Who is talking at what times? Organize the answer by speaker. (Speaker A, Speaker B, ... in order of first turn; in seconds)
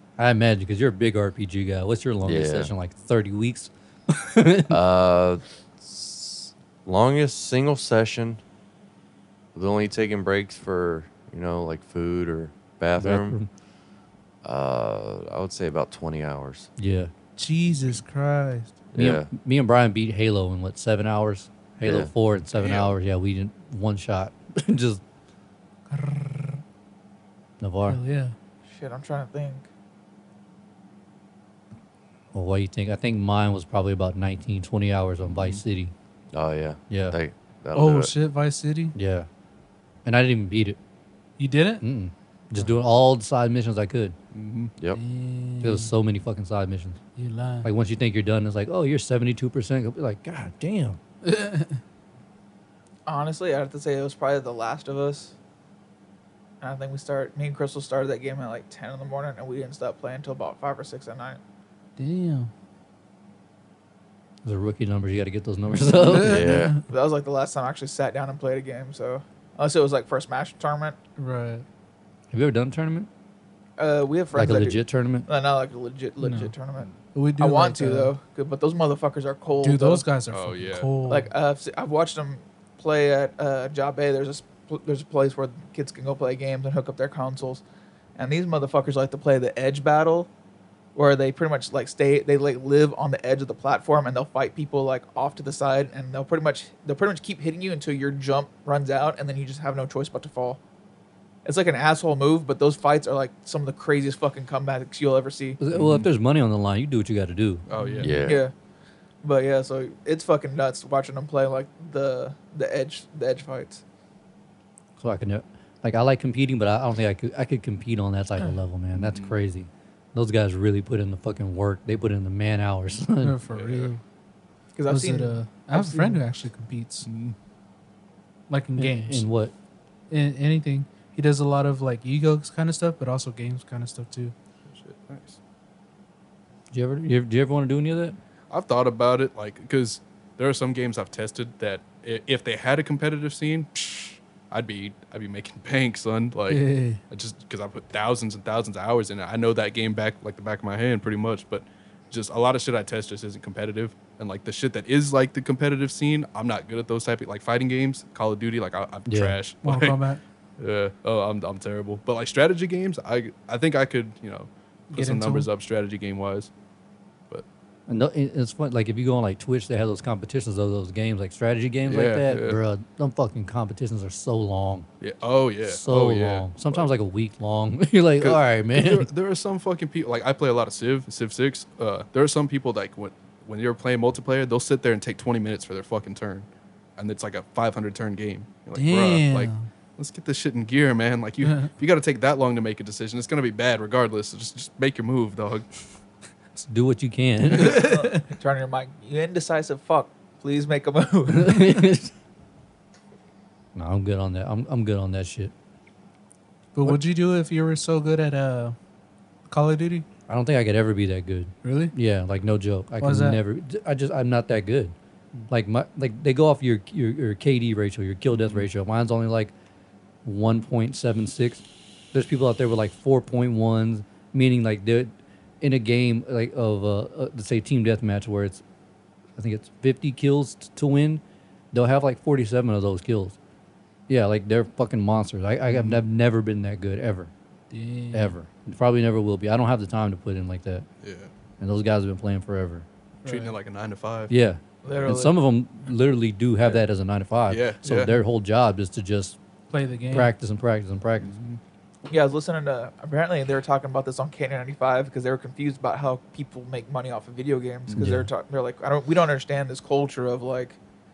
Speaker A: 0.2-4.8, 13.0-13.5, 16.8-17.1, 18.9-25.0, 27.6-28.0, 32.3-35.9, 36.9-37.2, 38.9-39.3, 40.0-40.8, 41.8-44.1, 45.6-47.0, 47.6-51.0, 64.4-66.5, 72.3-73.1, 74.3-75.3, 105.6-107.6, 115.0-123.4, 128.8-129.5, 136.7-138.2, 159.1-159.4, 167.9-174.9, 175.7-179.1, 196.6-197.9, 201.3-202.1, 203.7-205.5, 210.3-214.9, 215.5-219.5, 220.2-228.6, 229.4-231.2, 231.7-233.4, 234.1-237.3, 238.1-240.9, 241.6-242.9, 244.3-249.4, 250.1-251.3, 257.9-258.3
Speaker B: 2.2-2.7, 4.7-8.4, 9.5-13.4, 14.4-16.7, 18.9-19.3, 21.8-22.1, 36.3-38.1, 66.2-66.8, 108.0-108.5
Speaker C: 17.4-18.8, 25.9-26.6, 27.9-28.4, 37.7-38.9, 41.4-41.8, 44.9-45.9, 47.2-47.7, 51.2-51.8, 62.0-62.5, 65.9-66.8, 71.2-71.6, 76.2-76.5, 77.1-78.1, 79.6-81.3, 107.7-108.2, 123.2-124.0, 124.9-127.1, 128.5-129.3, 130.1-134.3, 146.5-147.0, 159.6-160.2, 164.9-165.5, 188.7-189.7, 191.4-191.7, 197.6-198.2, 206.8-208.8, 209.5-210.1, 211.6-211.9, 213.0-213.4, 237.7-238.4, 243.2-243.6, 249.7-250.3
Speaker D: 22.6-22.9, 35.3-35.6, 44.3-44.7, 80.3-80.9, 105.7-106.1, 107.7-108.2, 119.0-119.3, 123.5-123.9, 127.0-127.4, 134.7-135.4, 138.5-160.0, 160.6-166.5, 171.9-172.6, 175.0-176.9, 178.2-195.7, 218.3-218.7, 241.0-241.3, 243.2-244.3, 244.9-245.2, 247.5-248.2, 251.2-251.6
Speaker E: 28.7-29.7, 53.1-55.3, 56.6-61.4, 66.9-71.0, 73.8-80.0, 81.1-87.6, 88.2-90.3, 91.0-100.6, 101.5-105.6, 108.2-108.5, 109.2-113.8, 124.8-126.2, 197.6-201.7, 244.8-245.4, 252.1-260.8